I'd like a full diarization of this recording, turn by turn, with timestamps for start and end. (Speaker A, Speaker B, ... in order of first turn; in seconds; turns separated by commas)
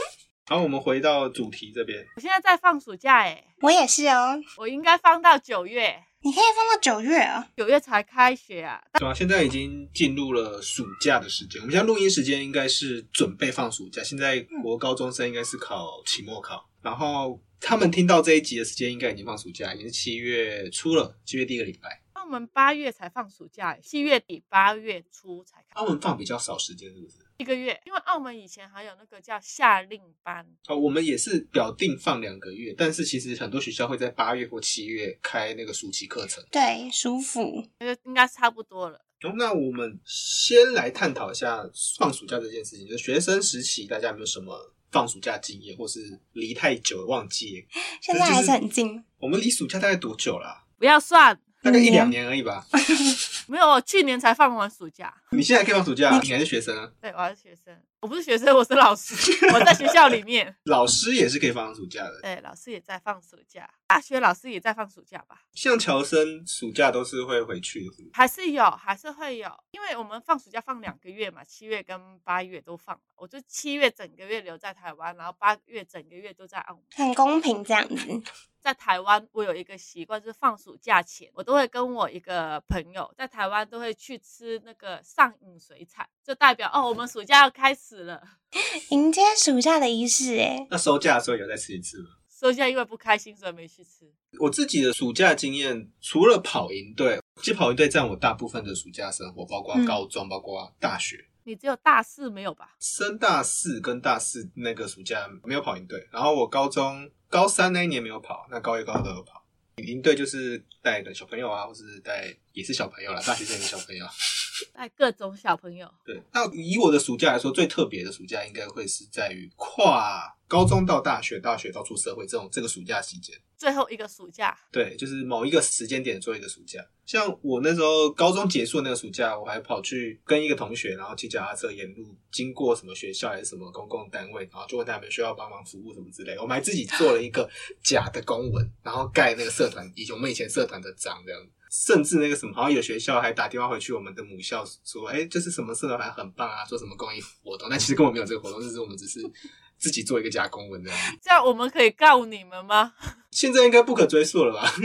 Speaker A: 0.5-2.1, Speaker B: 2.2-3.5, Speaker C: 3.6-4.4, Speaker B: 4.6-6.0, Speaker C: 6.2-7.5, Speaker B: 7.6-9.0, Speaker A: 9.0-22.0, Speaker B: 22.1-25.7, Speaker A: 25.8-27.2, Speaker B: 27.4-30.5, Speaker A: 30.7-36.5, Speaker C: 36.5-37.7, Speaker B: 37.8-39.0, Speaker A: 39.2-48.5, Speaker C: 48.0-49.0, Speaker A: 49.2-50.6, Speaker B: 50.8-51.5, Speaker A: 51.6-52.7, Speaker C: 51.6-52.1, Speaker B: 53.5-55.2, Speaker A: 55.3-56.9, Speaker B: 57.0-60.6, Speaker A: 59.3-59.9, Speaker A: 60.7-62.2, Speaker B: 62.2-65.4, Speaker A: 65.6-68.1, Speaker B: 68.1-76.8, Speaker C: 77.0-78.2, Speaker B: 78.6-88.3, Speaker C: 88.9-90.7, Speaker A: 90.7-92.1, Speaker B: 92.3-94.1, Speaker A: 94.4-101.2, Speaker C: 99.7-100.0, Speaker B: 101.5-102.7, Speaker A: 102.8-114.1, Speaker B: 114.8-115.9, Speaker A: 116.1-123.4, Speaker B: 123.6-124.6, Speaker A: 124.7-151.1, Speaker B: 151.2-152.9, Speaker A: 153.3-154.7